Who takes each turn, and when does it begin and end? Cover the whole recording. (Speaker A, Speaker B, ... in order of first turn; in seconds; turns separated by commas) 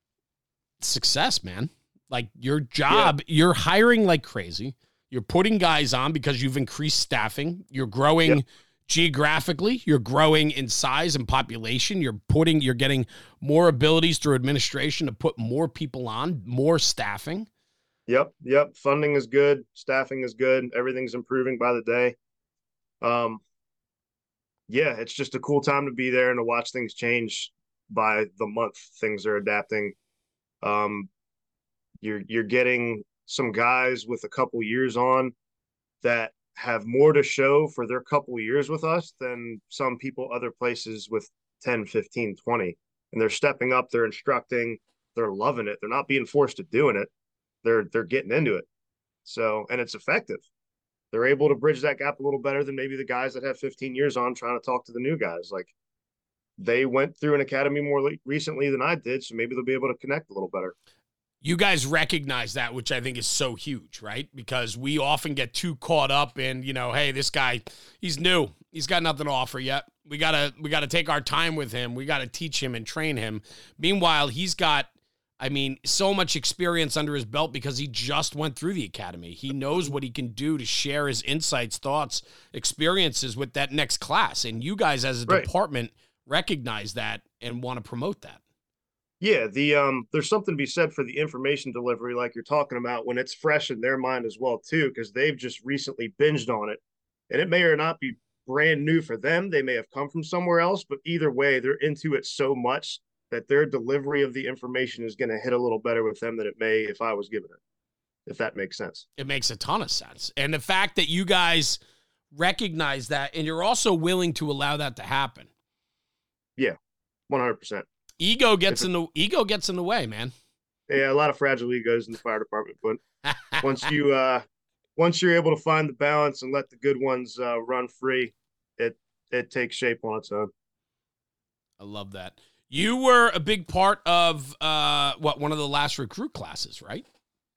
Speaker A: 0.8-17.5, Speaker B: 18.1-22.2, Speaker B: 23.0-23.4, Speaker B: 24.7-29.9, Speaker B: 30.6-31.1, Speaker B: 32.0-35.3, Speaker B: 36.0-47.1, Speaker B: 47.6-48.7, Speaker B: 49.3-50.4, Speaker B: 51.1-55.7, Speaker B: 56.6-60.7, Speaker A: 61.4-88.4, Speaker B: 89.2-107.6, Speaker B: 108.3-109.1, Speaker A: 109.2-111.8, Speaker A: 112.3-115.5, Speaker B: 117.3-117.9, Speaker A: 118.2-120.3, Speaker B: 120.9-123.0, Speaker A: 123.3-123.6, Speaker B: 123.6-124.4, Speaker B: 125.0-130.5, Speaker A: 131.8-137.1